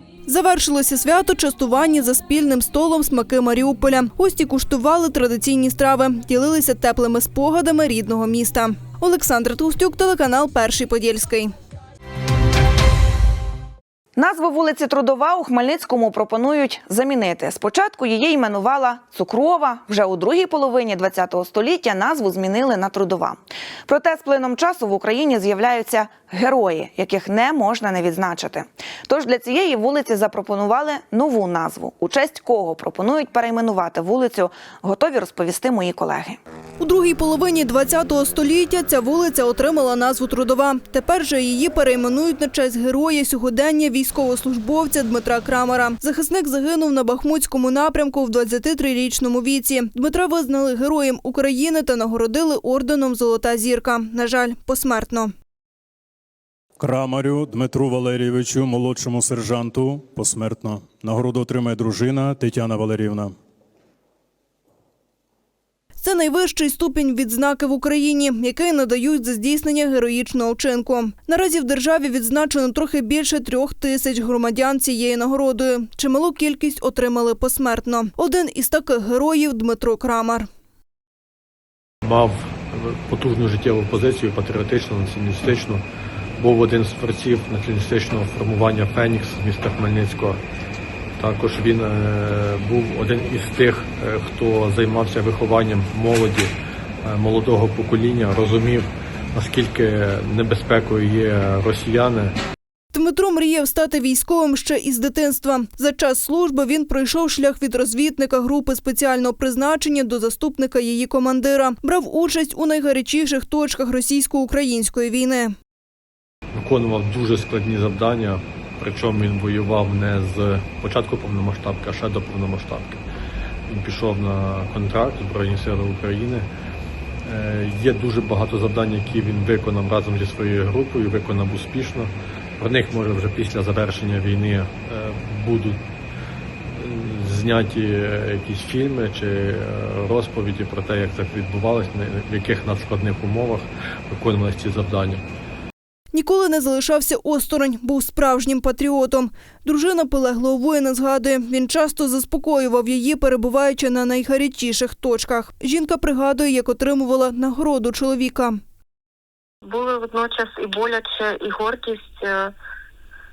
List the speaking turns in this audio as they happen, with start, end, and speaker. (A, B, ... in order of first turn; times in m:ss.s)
0:00.3-0:11.5 A
0:14.2-0:36.4 B
0:36.8-0:55.3 A
0:56.8-1:03.4 C
1:06.0-1:20.5 A
1:22.1-1:25.8 D
1:26.4-1:30.4 D
1:31.2-1:36.5 D
1:37.0-1:42.3 D
1:42.9-1:55.5 A
1:56.6-2:03.0 D
2:03.7-2:06.5 D
2:07.3-2:15.8 D
2:16.8-2:25.2 D
2:26.1-2:38.6 A
2:39.6-2:42.5 E